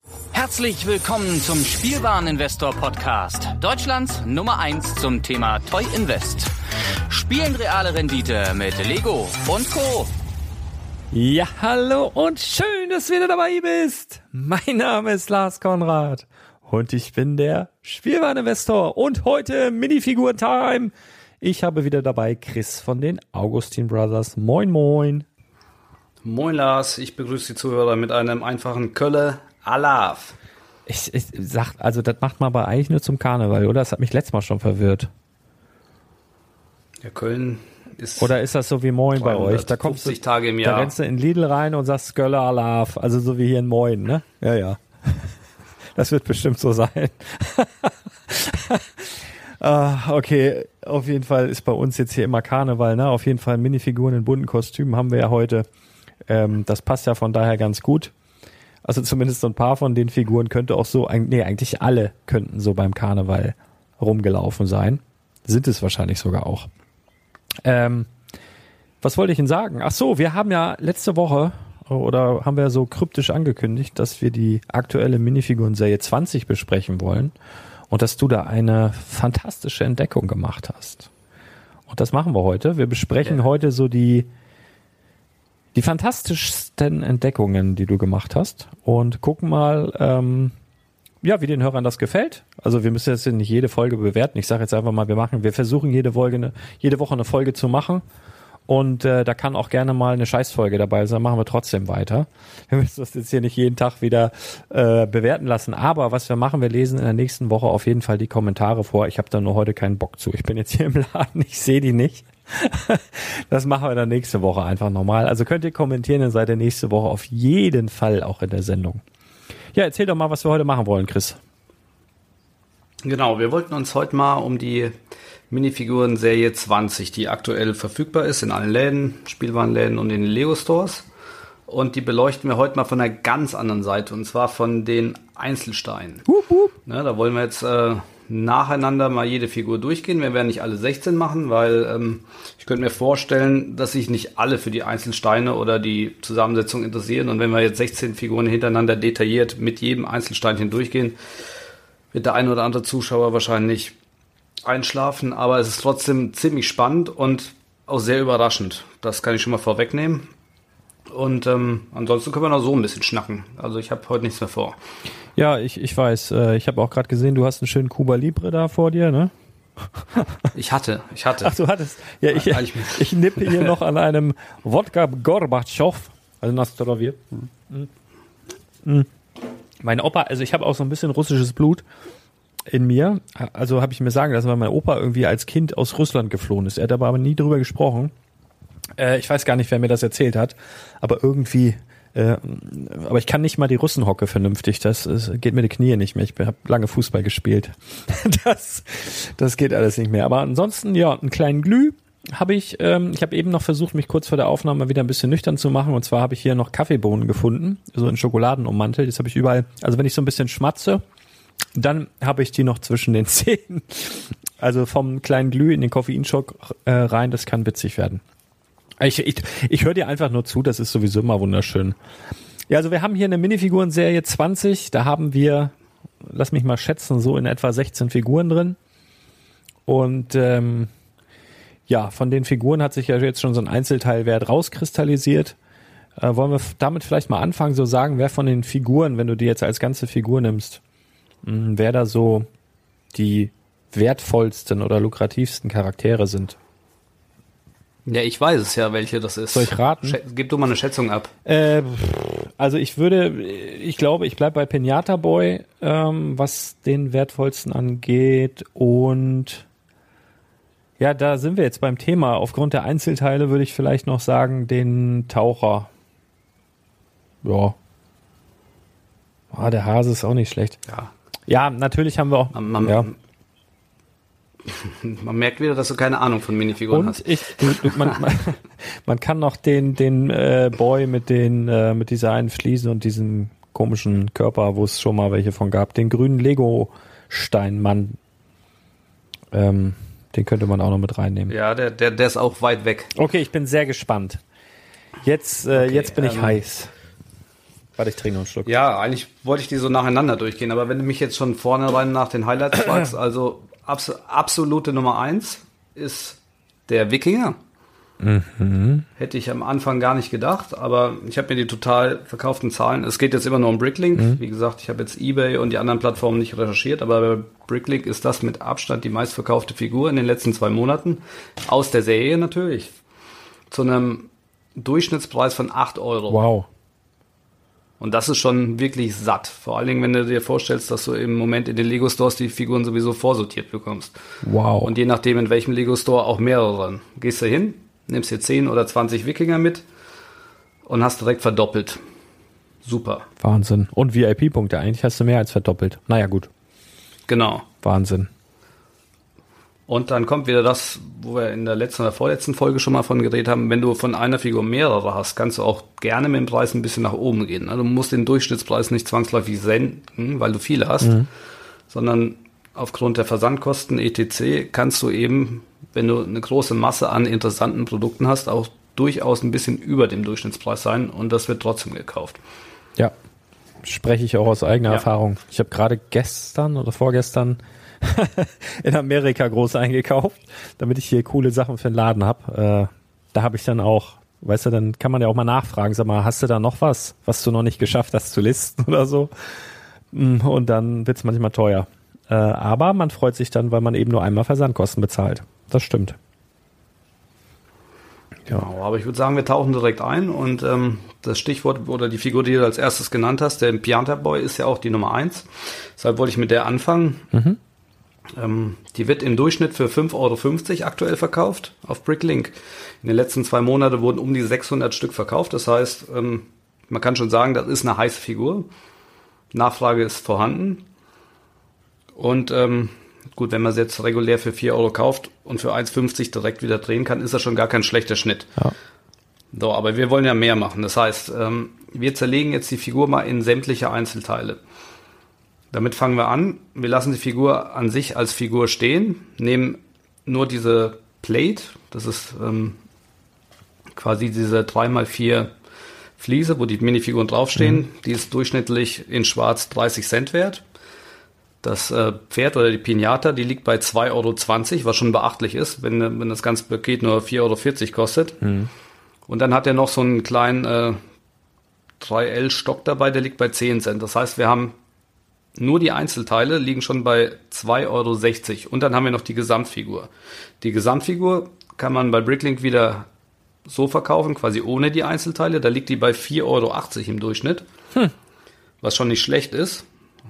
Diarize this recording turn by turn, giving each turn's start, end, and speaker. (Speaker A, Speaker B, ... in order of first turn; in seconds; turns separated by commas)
Speaker A: 0.3-6.5, Speaker A: 7.1-10.1, Speaker B: 11.1-25.3, Speaker C: 26.2-30.4, Speaker B: 30.9-35.1, Speaker C: 37.0-38.3, Speaker B: 38.2-45.3, Speaker C: 39.2-40.9, Speaker B: 46.0-55.7, Speaker B: 56.3-58.1, Speaker B: 58.8-66.7, Speaker B: 67.6-68.1, Speaker B: 69.0-77.3, Speaker B: 77.9-81.1, Speaker B: 81.9-84.3, Speaker B: 85.8-90.5, Speaker B: 91.2-98.0, Speaker B: 98.7-119.0, Speaker B: 119.7-121.4, Speaker C: 123.0-124.9, Speaker C: 125.5-131.1, Speaker C: 131.7-136.3, Speaker B: 136.3-136.7, Speaker C: 136.9-151.2, Speaker C: 152.1-153.9, Speaker C: 154.6-160.3, Speaker C: 161.1-164.8, Speaker B: 165.4-169.3, Speaker C: 170.5-171.5, Speaker B: 171.4-177.9, Speaker C: 172.3-173.7, Speaker B: 179.8-181.8, Speaker B: 182.7-188.1, Speaker B: 189.0-211.0, Speaker B: 211.8-218.2, Speaker B: 219.0-222.0, Speaker B: 222.7-225.7, Speaker B: 226.3-228.8, Speaker B: 229.9-230.9, Speaker B: 231.9-235.6, Speaker B: 236.2-240.8, Speaker B: 241.4-242.5, Speaker B: 243.1-246.6, Speaker C: 248.1-251.3, Speaker B: 249.5-250.2, Speaker B: 251.5-259.6, Speaker B: 261.0-265.9, Speaker B: 267.4-267.8, Speaker B: 269.5-270.8, Speaker B: 271.5-273.1, Speaker C: 272.5-273.1, Speaker C: 274.7-278.1, Speaker B: 276.9-288.2, Speaker B: 289.5-291.5, Speaker C: 291.5-293.1, Speaker B: 293.1-294.4, Speaker B: 295.2-296.9, Speaker C: 295.7-296.6, Speaker B: 298.0-298.7, Speaker C: 298.7-307.6, Speaker B: 308.2-309.1, Speaker C: 309.2-322.9, Speaker C: 323.7-326.4, Speaker B: 326.3-326.7, Speaker C: 328.0-334.1, Speaker B: 334.4-334.9, Speaker C: 334.8-339.8, Speaker C: 340.9-342.0, Speaker C: 342.8-343.3, Speaker B: 343.4-346.5, Speaker C: 347.3-347.7, Speaker B: 347.8-348.3, Speaker C: 349.9-361.2, Speaker C: 361.9-372.4, Speaker B: 373.8-396.2, Speaker C: 398.5-407.3, Speaker B: 407.3-407.6, Speaker C: 408.4-418.7, Speaker C: 419.5-420.8, Speaker C: 422.2-428.6, Speaker C: 429.5-434.6, Speaker C: 435.7-442.8, Speaker C: 444.0-445.5, Speaker C: 446.2-450.6, Speaker C: 451.6-458.4, Speaker B: 458.4-458.7, Speaker C: 459.3-461.0, Speaker C: 462.0-464.7, Speaker C: 465.6-470.1, Speaker C: 470.6-473.1, Speaker C: 473.7-477.6, Speaker C: 478.8-479.9